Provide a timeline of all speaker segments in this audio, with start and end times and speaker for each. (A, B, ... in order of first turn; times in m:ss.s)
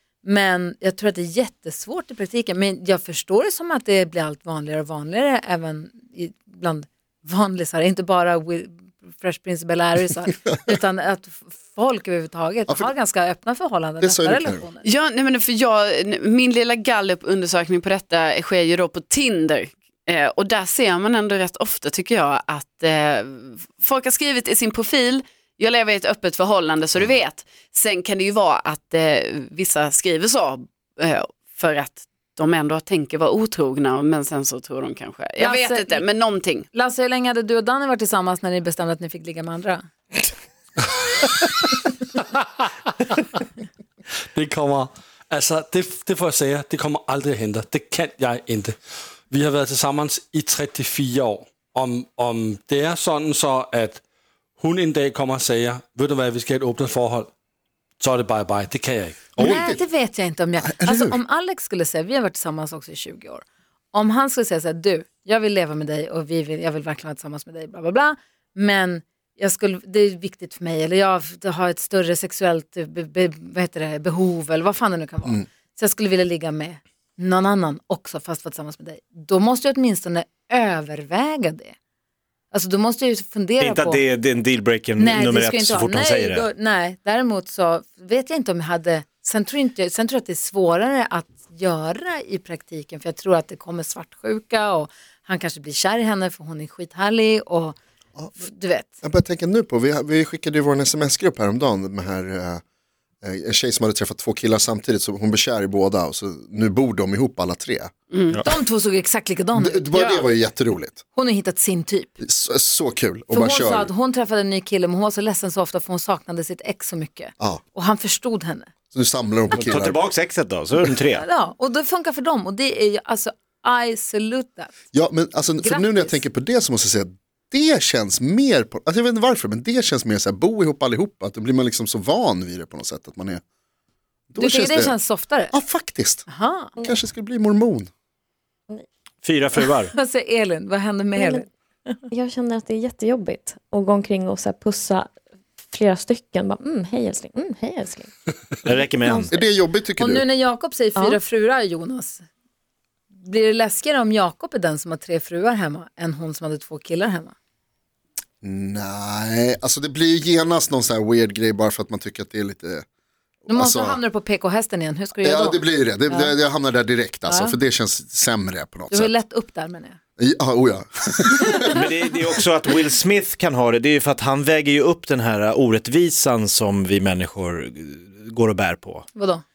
0:00.2-0:14.8 A
0:14.0-0:14.6 B
0:14.8-0:36.7 C
0:35.4-0:36.0 A
0:36.7-0:39.8 A
0:44.3-0:48.8 D
0:49.3-0:54.0 D
0:54.6-0:57.3 D
0:58.0-0:59.4 D
0:59.4-0:59.8 B
0:59.4-1:21.7 A
1:00.6-1:01.2 B
1:22.5-1:24.0 A
1:23.6-1:26.5 E
1:25.0-1:37.8 A
1:38.4-1:38.9 A
1:39.0-1:42.6 B
1:43.2-1:47.9 B
1:48.1-1:48.4 C
1:48.4-1:50.2 A
1:49.6-1:51.0 B
1:49.9-1:50.2 C
1:51.1-1:52.2 A
1:52.2-1:53.9 B
1:53.3-1:58.7 A
1:58.9-2:00.0 B
1:59.5-2:01.2 E
2:01.1-2:04.7 A
2:04.9-2:13.4 B
2:05.6-2:06.2 A
2:14.3-2:15.0 B
2:14.4-2:15.5 A
2:15.5-2:16.3 B
2:16.3-2:16.7 A
2:16.8-2:17.9 B
2:19.2-2:19.9 E
2:19.6-2:21.4 A
2:21.1-2:21.5 F
2:22.1-2:29.5 F
2:28.6-2:29.2 E
2:29.3-2:30.2 B
2:30.0-2:32.2 A
2:30.9-2:31.2 F
2:33.2-2:37.3 A
2:38.4-2:42.8 B
2:43.4-2:44.0 B
2:43.5-2:46.3 A
2:45.2-2:49.1 B
2:47.2-2:47.6 A
2:48.9-2:50.0 A
2:50.2-2:51.8 B
2:51.7-2:59.1 E
2:59.1-2:59.4 A